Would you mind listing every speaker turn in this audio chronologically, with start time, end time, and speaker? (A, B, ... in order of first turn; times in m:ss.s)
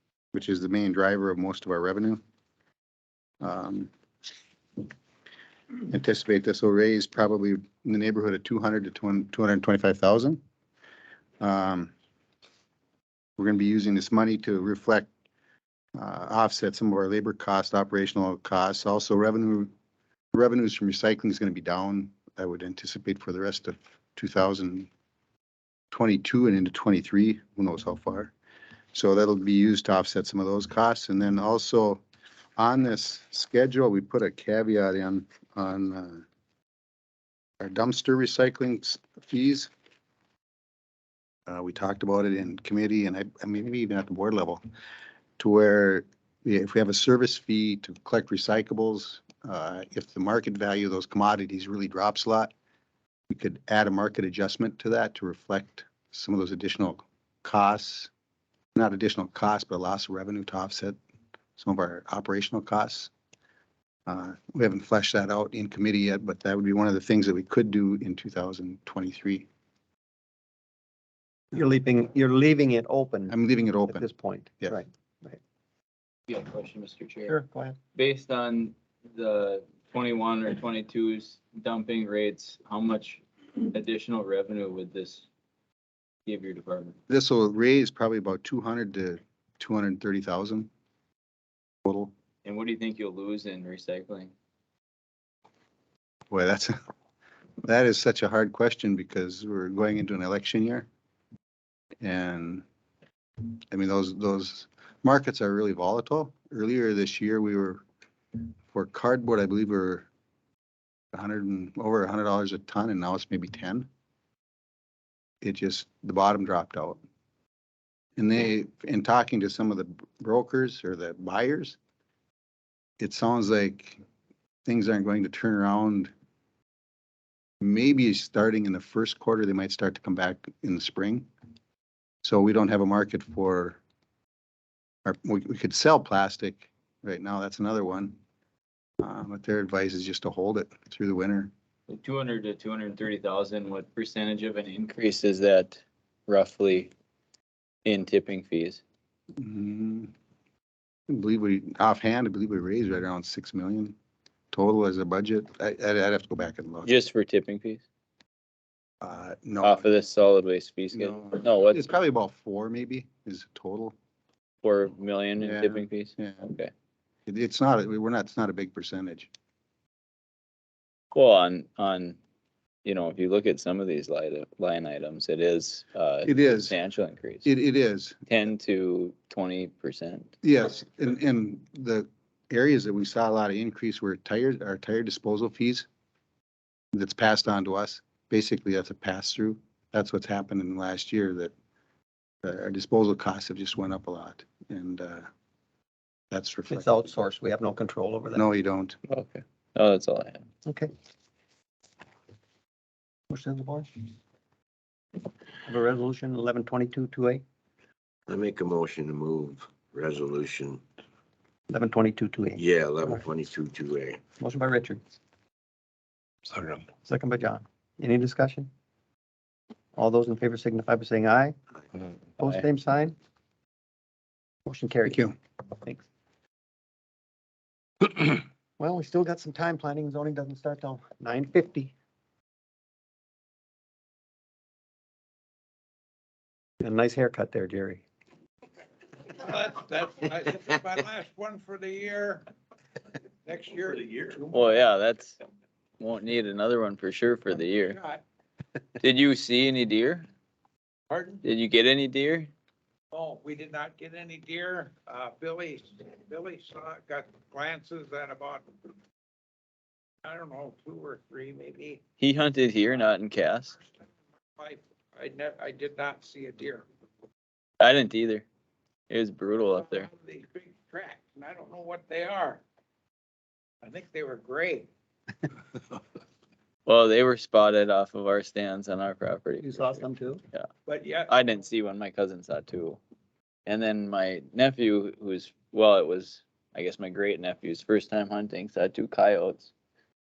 0:00.3-0:02.2 A
0:03.4-0:03.9 A
0:05.9-0:10.4 A
0:11.4-0:11.9 A
0:13.4-0:15.1 A
0:16.0-0:19.7 A
0:20.3-0:24.9 A
0:25.9-0:28.3 A
0:28.9-0:32.0 A
0:32.6-0:36.2 A
0:37.6-0:39.7 A
0:41.5-0:44.6 A
0:45.4-0:52.5 A
0:53.3-0:58.1 A
0:58.8-1:01.0 A
1:01.6-1:03.1 A
1:04.1-1:09.5 A
1:11.5-1:13.4 B
1:13.3-1:14.1 A
1:13.9-1:15.4 B
1:16.3-1:17.3 C
1:17.3-1:17.8 B
1:18.0-1:25.3 C
1:26.3-1:27.0 C
1:27.1-1:30.7 A
1:31.8-1:32.1 A
1:32.4-1:34.3 C
1:36.3-1:36.8 A
1:37.6-1:40.9 A
1:42.0-1:42.6 A
1:43.7-1:47.8 A
1:48.7-1:50.1 A
1:51.1-1:53.9 A
1:55.4-1:57.0 A
1:58.2-2:01.8 A
2:03.0-2:04.0 A
2:04.7-2:06.1 A
2:07.6-2:11.3 A
2:12.2-2:13.8 A
2:15.0-2:18.2 A
2:19.0-2:21.5 A
2:21.9-2:26.9 C
2:27.8-2:28.8 C
2:29.4-2:30.1 A
2:31.1-2:33.9 A
2:34.5-2:36.9 A
2:36.8-2:37.8 C
2:39.0-2:39.9 A
2:39.6-2:41.9 C
2:40.9-2:44.0 A
2:44.6-2:46.7 C
2:45.4-2:46.5 A
2:47.3-2:49.3 A
2:51.1-2:52.2 C
2:52.8-2:57.5 C
2:56.2-2:56.8 A
2:57.4-2:58.2 A
2:58.3-3:00.3 C
3:00.4-3:05.9 A
3:06.9-3:11.5 A
3:12.4-3:15.3 A
3:16.3-3:17.1 A
3:16.7-3:18.4 B
3:18.4-3:19.0 A
3:19.1-3:20.5 C
3:23.3-3:23.9 B
3:25.6-3:27.4 B
3:28.3-3:30.8 D
3:31.7-3:33.2 B
3:32.6-3:34.2 D
3:34.4-3:35.0 B
3:37.0-3:38.7 B
3:40.0-3:41.6 B
3:42.4-3:43.2 B
3:44.7-3:45.3 B
3:45.1-3:45.4 A
3:48.8-3:51.9 B
3:56.8-3:58.0 B
3:59.3-4:02.4 E
4:03.4-4:04.8 E
4:04.5-4:05.4 C
4:06.0-4:08.0 C
4:07.9-4:08.2 E
4:09.0-4:10.3 C
4:11.1-4:11.4 E
4:11.4-4:12.5 C
4:13.1-4:18.7 E
4:20.2-4:22.0 E
4:22.2-4:23.8 C
4:24.6-4:26.8 E
4:27.8-4:28.4 C
4:29.1-4:30.1 C
4:29.7-4:32.6 E
4:33.8-4:34.9 E
4:36.9-4:40.7 C
4:39.6-4:40.4 B
4:40.9-4:41.4 E
4:41.3-4:43.0 C
4:43.7-4:49.7 C